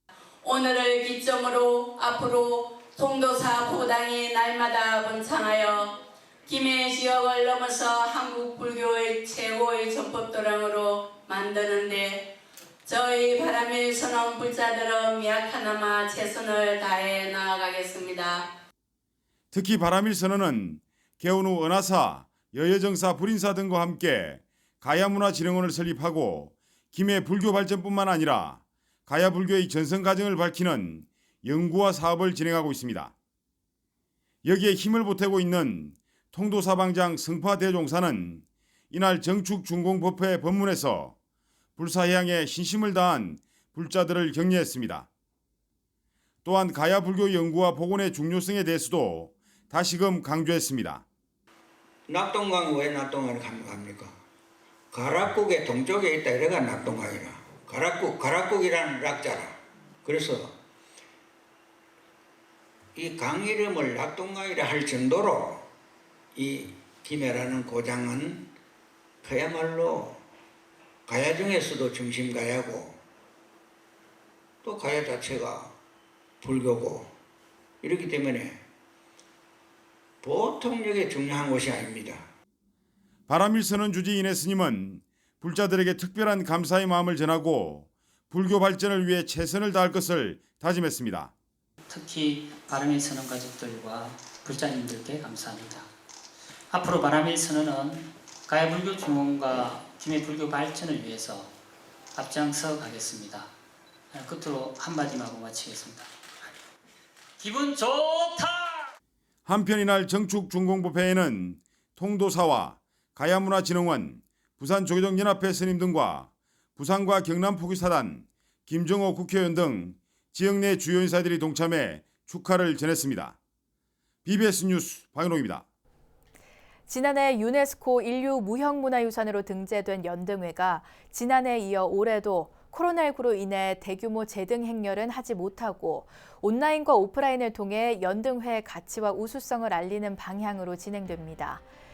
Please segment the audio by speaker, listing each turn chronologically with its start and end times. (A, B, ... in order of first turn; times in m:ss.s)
0:00.4-0:12.2 A
0:12.8-0:18.4 A
0:19.5-0:33.1 B
0:34.4-0:41.2 B
0:41.8-0:45.1 B
0:46.4-0:51.0 B
0:52.1-0:54.1 C
0:54.9-1:00.5 C
1:03.0-1:05.6 C
1:06.3-1:08.5 C
1:09.2-1:10.2 C
1:11.1-1:13.0 C
1:14.6-1:15.7 C
1:16.4-1:17.1 C
1:17.8-1:18.6 C
1:20.2-1:22.2 C
1:23.3-1:31.3 B
1:31.9-1:35.8 D
1:36.7-1:41.5 D
1:42.2-1:43.5 D
1:44.1-1:46.1 D
1:47.4-1:48.8 D
1:49.4-2:03.4 B
2:04.2-2:05.6 B
2:06.9-2:21.6 E